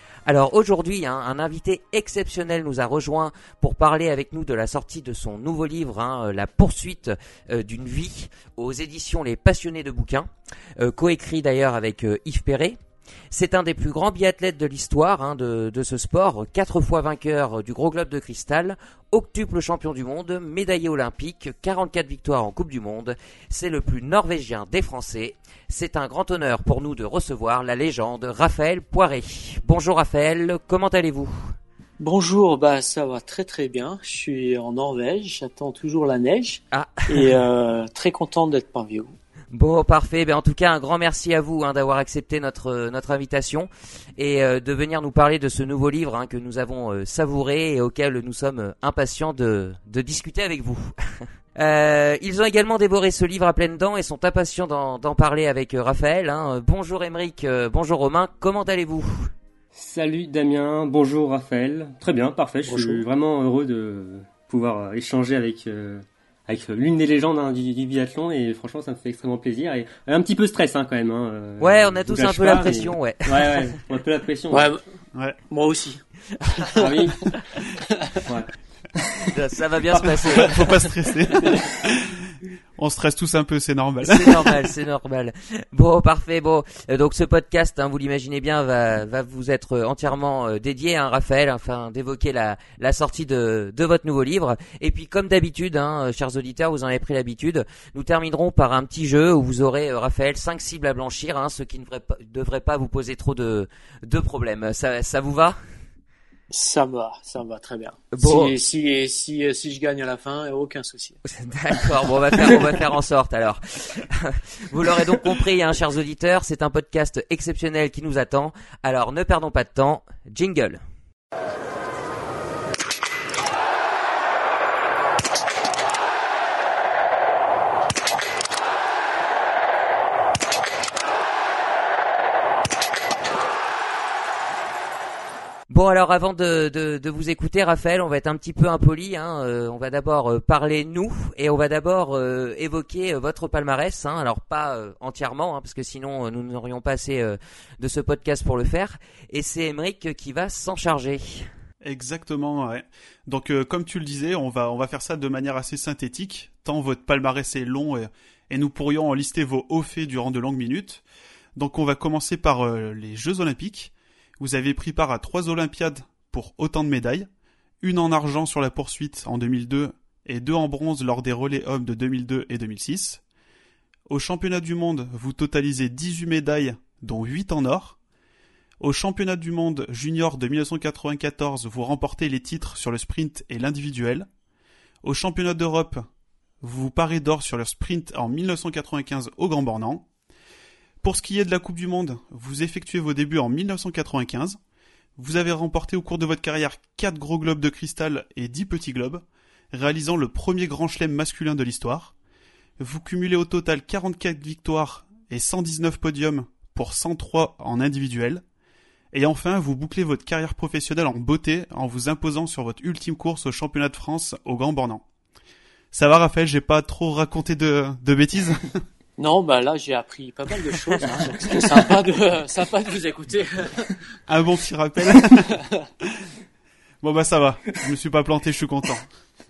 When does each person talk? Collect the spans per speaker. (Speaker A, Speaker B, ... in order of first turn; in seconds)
Speaker A: 0.2-12.8, 13.3-31.6, 36.7-37.3, 39.5-59.3, 71.6-73.7, 76.4-76.7, 79.2-80.7, 84.0-105.6, 108.1-108.6, 111.2-120.8, 135.7-151.5
Speaker B: 32.0-39.1, 62.7-63.0, 74.5-74.8, 75.5-76.0, 76.5-78.2, 106.5-111.2, 219.2-224.0, 225.2-225.7
Speaker C: 59.7-74.7, 76.7-77.3, 78.2-79.3, 221.4-221.8
Speaker D: 75.1-75.4, 80.0-84.6, 151.8-161.0, 161.6-167.3, 167.8-173.2, 174.1-178.0, 178.8-184.3, 185.0-186.0, 186.6-190.1, 191.0-194.6, 195.2-202.1, 202.8-208.4, 209.1-215.0, 215.9-218.8, 224.3-225.6, 227.0-229.1